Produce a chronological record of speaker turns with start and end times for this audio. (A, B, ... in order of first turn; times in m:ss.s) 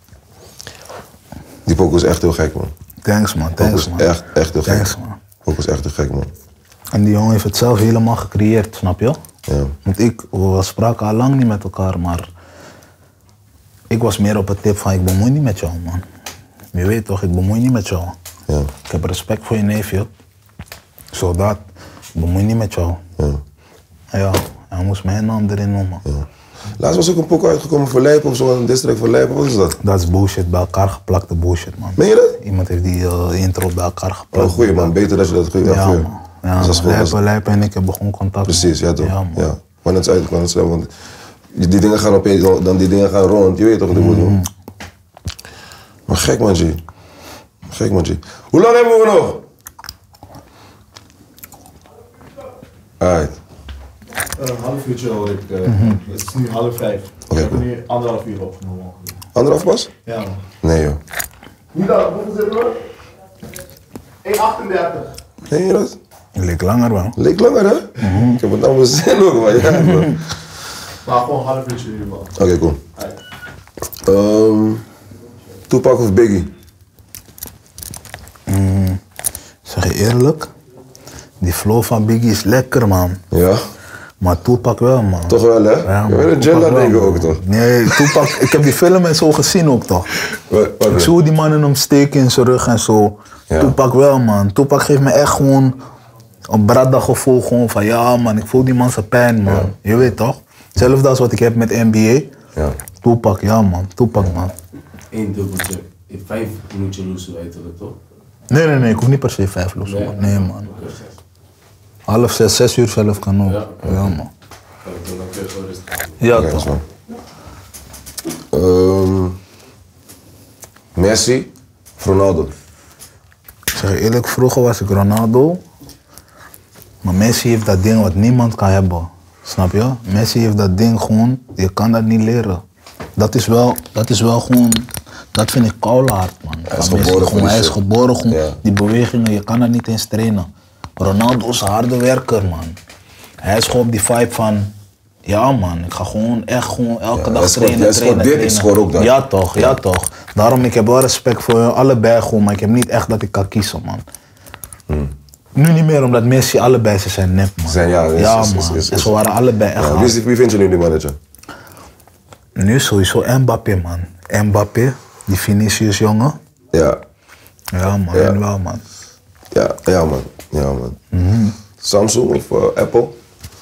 0:01.6-0:02.7 A
0:03.0-0:04.1 B
0:03.6-0:06.3 A
0:04.6-0:05.2 B
0:06.9-0:09.2 B
0:09.5-0:09.7 A
0:09.8-0:12.3 B
0:13.9-0:16.0 B
0:16.7-0:18.1 B
0:18.8-0:20.1 B
0:21.1-0:21.6 B
0:22.1-0:23.0 B
0:24.1-0:26.0 B
0:26.0-0:29.8 A
0:29.8-0:35.0 B
0:32.0-0:32.4 A
0:34.3-0:37.2 A
0:35.6-0:39.5 B
0:38.5-0:40.9 A
0:41.5-0:44.4 A
0:43.9-0:44.4 B
0:46.1-0:46.8 A
0:47.6-0:49.4 A
0:53.0-0:53.4 A
0:54.4-0:59.2 C
0:55.7-0:56.0 B
0:57.3-0:57.6 A
0:59.3-0:59.9 A
1:00.0-1:00.4 C
1:00.6-1:01.0 A
1:01.7-1:02.8 C
1:04.2-1:05.1 C
1:05.4-1:06.0 A
1:06.4-1:07.2 B
1:07.2-1:10.2 A
1:08.0-1:08.4 B
1:09.6-1:10.2 B
1:11.0-1:12.3 C
1:12.4-1:12.8 A
1:14.0-1:14.8 A
1:15.7-1:16.5 A
1:18.5-1:19.0 B
1:19.6-1:20.5 B
1:21.4-1:23.2 B
1:23.3-1:23.6 A
1:24.2-1:30.1 B
1:25.3-1:28.3 A
1:30.3-1:31.1 A
1:30.9-1:35.8 B
1:33.5-1:33.8 A
1:36.5-1:42.3 B
1:39.4-1:39.7 A
1:43.0-1:44.5 B
1:45.1-1:48.0 D
1:48.5-1:50.7 B
1:49.8-1:51.1 D
1:52.1-1:54.3 B
1:53.5-1:53.8 D
1:53.8-1:54.2 A
1:54.8-1:56.2 D
1:56.2-1:56.8 B
1:56.3-1:56.8 A
1:58.5-1:59.4 A
2:00.9-2:02.5 A
2:03.7-2:05.6 B
2:07.0-2:12.6 B
2:13.2-2:22.8 B
2:16.7-2:17.8 A
2:18.3-2:18.6 A
2:23.4-2:24.7 B
2:25.2-2:34.0 B
2:27.1-2:29.8 A
2:35.6-2:40.2 B
2:37.7-2:39.2 A
2:39.8-2:41.2 A
2:42.6-2:46.4 B
2:46.7-2:47.0 A
2:47.7-2:48.8 B
2:48.1-2:48.4 A
2:49.5-2:51.0 A
2:51.1-2:51.6 B
2:51.8-2:53.2 A